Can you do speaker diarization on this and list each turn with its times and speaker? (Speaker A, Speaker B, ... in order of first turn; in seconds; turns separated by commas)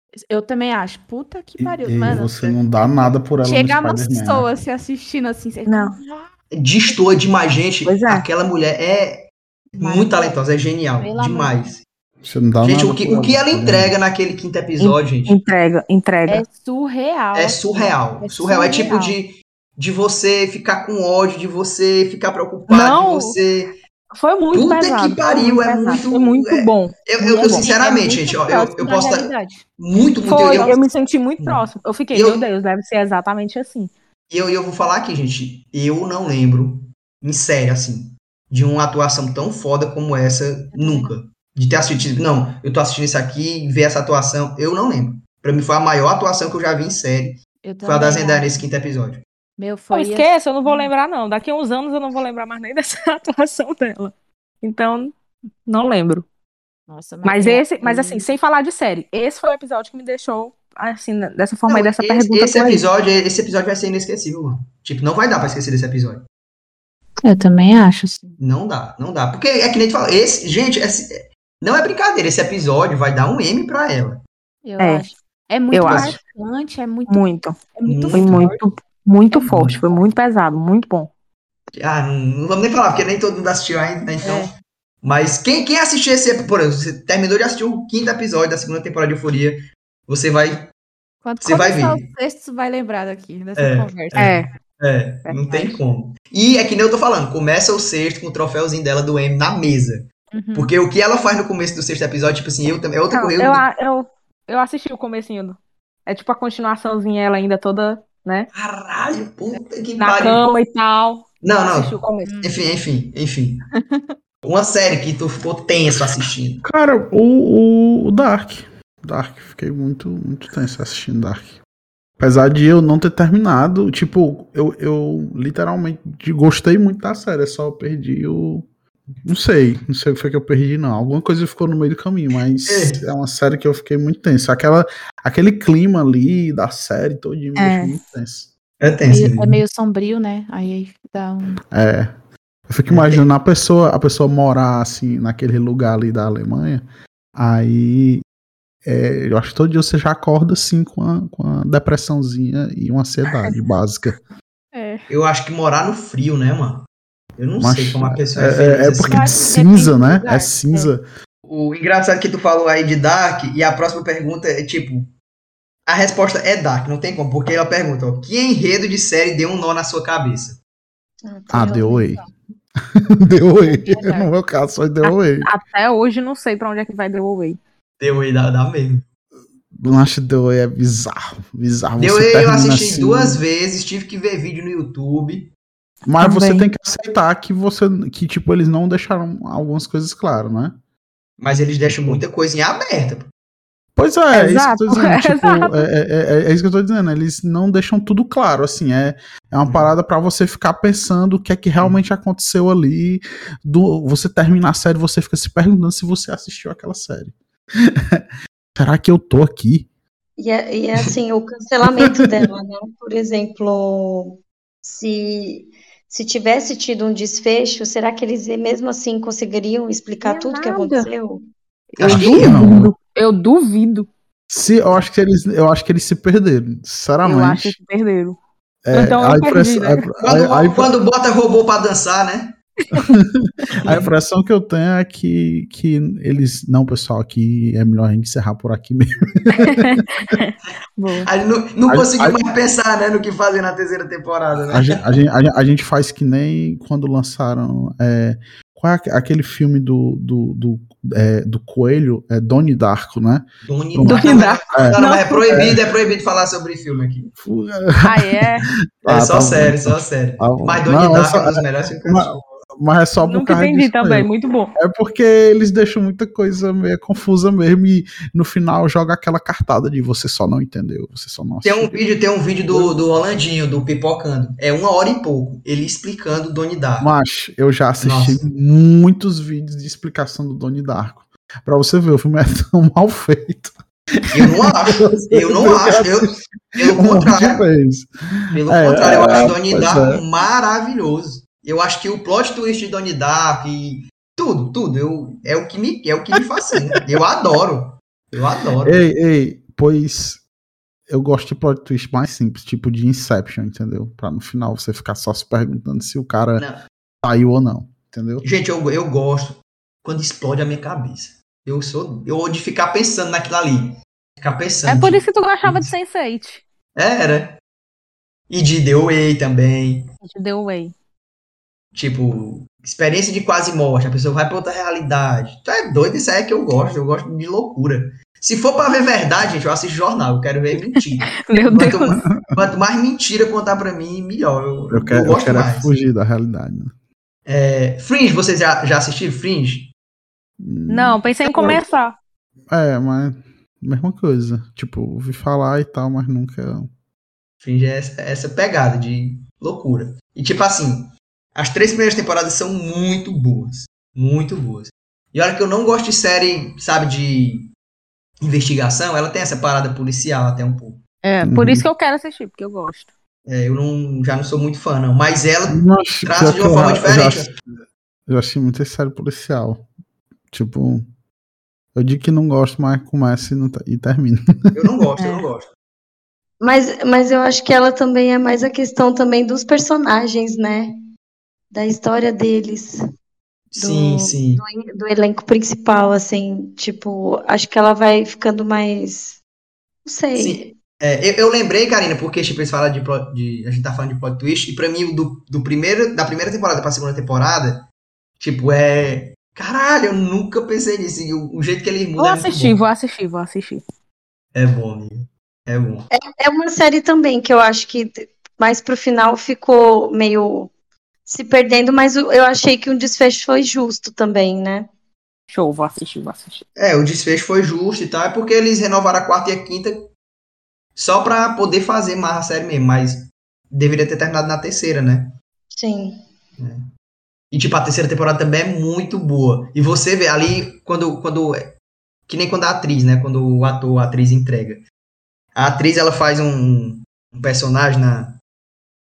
Speaker A: 0.3-2.3, Speaker B: 1.6-4.5, Speaker C: 2.4-3.2, Speaker A: 3.4-6.3, Speaker D: 5.7-6.0, Speaker C: 6.5-9.2, Speaker D: 7.8-8.3, Speaker A: 9.8-10.4, Speaker C: 9.8-11.8, Speaker A: 11.0-11.7, Speaker B: 12.2-13.9, Speaker C: 12.6-15.4, Speaker D: 14.8-16.4, Speaker A: 16.3-19.2, Speaker C: 17.3-23.7, Speaker D: 22.7-23.4, Speaker D: 24.1-27.8, Speaker C: 24.5-30.8, Speaker A: 27.6-29.6, Speaker D: 28.7-29.0, Speaker D: 30.2-33.9, Speaker C: 31.4-32.4, Speaker C: 34.3-49.2, Speaker A: 40.7-41.1, Speaker A: 47.6-48.7, Speaker A: 49.6-50.9, Speaker D: 49.9-55.1, Speaker D: 55.7-56.2, Speaker A: 56.9-58.3, Speaker D: 57.2-62.9, Speaker C: 61.7-66.2, Speaker A: 67.2-68.4, Speaker C: 68.4-74.2, Speaker A: 74.7-77.2, Speaker D: 74.8-75.1, Speaker D: 75.7-76.2, Speaker C: 75.8-76.2, Speaker D: 77.1-77.6, Speaker A: 77.8-78.7, Speaker C: 77.9-78.5, Speaker D: 78.1-81.1, Speaker C: 79.5-79.8, Speaker C: 81.8-90.7, Speaker A: 91.2-94.3, Speaker C: 91.4-92.0, Speaker C: 93.6-103.7, Speaker D: 94.2-94.5, Speaker A: 95.3-95.8, Speaker A: 100.3-100.7, Speaker D: 103.1-108.5, Speaker C: 108.5-110.5, Speaker D: 110.0-112.4, Speaker C: 111.4-113.7, Speaker A: 112.2-112.5, Speaker A: 113.8-114.1, Speaker C: 114.4-116.6, Speaker B: 116.6-121.6, Speaker B: 122.2-128.7, Speaker B: 129.2-138.5, Speaker C: 132.7-133.0, Speaker D: 137.6-138.0, Speaker C: 138.8-139.6, Speaker A: 139.1-141.6, Speaker B: 141.7-142.1, Speaker B: 142.7-146.8, Speaker C: 142.9-143.2, Speaker B: 147.4-148.2, Speaker B: 148.8-154.2, Speaker D: 154.8-155.0, Speaker C: 155.1-156.8, Speaker C: 157.4-159.3, Speaker B: 157.6-161.0, Speaker A: 159.1-160.9, Speaker C: 161.5-165.1, Speaker C: 165.9-170.6, Speaker E: 171.2-172.3, Speaker B: 171.5-172.2, Speaker B: 173.2-175.5, Speaker E: 173.7-174.3, Speaker D: 175.0-177.6, Speaker C: 178.0-179.1, Speaker B: 179.7-183.4, Speaker C: 182.0-185.5, Speaker B: 186.1-190.8, Speaker D: 186.2-186.7, Speaker C: 191.4-193.3, Speaker B: 191.9-192.2, Speaker B: 194.0-208.2, Speaker D: 194.3-195.9, Speaker C: 199.6-199.9, Speaker B: 208.8-209.9, Speaker E: 210.4-221.5, Speaker D: 220.2-221.1, Speaker D: 221.9-224.1, Speaker C: 222.0-222.6, Speaker B: 222.0-222.9, Speaker B: 224.5-227.8, Speaker D: 227.2-228.4, Speaker B: 228.9-230.9, Speaker D: 228.9-230.1, Speaker C: 230.2-232.6, Speaker B: 233.0-240.0, Speaker C: 233.8-234.1, Speaker D: 239.7-241.3, Speaker C: 241.2-245.0, Speaker B: 241.9-242.4, Speaker B: 244.7-255.0, Speaker C: 253.6-257.3, Speaker D: 254.1-255.5, Speaker B: 255.5-255.8, Speaker B: 257.4-258.4, Speaker D: 258.0-258.7, Speaker B: 259.0-272.1, Speaker C: 259.1-262.3, Speaker D: 263.2-264.8, Speaker C: 271.6-277.1, Speaker B: 272.7-273.0, Speaker B: 277.0-290.2, Speaker C: 278.0-278.4, Speaker C: 284.3-287.6, Speaker C: 288.5-299.0, Speaker B: 298.9-300.4, Speaker B: 301.1-306.7, Speaker C: 306.6-306.8, Speaker B: 307.2-308.4, Speaker C: 308.4-315.9, Speaker D: 314.9-316.6, Speaker C: 317.0-317.6, Speaker C: 318.5-320.1, Speaker D: 320.2-320.9, Speaker C: 321.9-335.9, Speaker D: 331.3-332.2, Speaker B: 334.9-336.9, Speaker C: 337.5-339.9, Speaker B: 340.6-341.8, Speaker D: 340.9-342.2, Speaker B: 342.7-346.9, Speaker C: 347.6-357.7, Speaker C: 358.4-361.0, Speaker D: 361.2-363.1, Speaker B: 361.4-361.9, Speaker C: 363.5-367.5, Speaker B: 365.7-367.6, Speaker B: 368.3-369.9, Speaker B: 370.5-371.1, Speaker B: 371.9-374.9, Speaker C: 374.8-375.7, Speaker D: 375.2-375.5, Speaker E: 376.6-380.9, Speaker E: 381.7-383.0, Speaker C: 383.7-384.6, Speaker E: 383.8-389.4, Speaker E: 390.1-390.8, Speaker C: 390.4-397.8, Speaker C: 398.4-402.8, Speaker D: 402.2-403.8, Speaker C: 404.5-406.1, Speaker E: 406.1-410.7, Speaker E: 411.3-414.9, Speaker D: 415.5-416.6, Speaker C: 416.8-420.1, Speaker C: 421.0-425.3, Speaker E: 425.7-426.2, Speaker C: 426.6-426.9, Speaker C: 427.5-431.7, Speaker C: 432.3-434.8, Speaker C: 435.6-438.3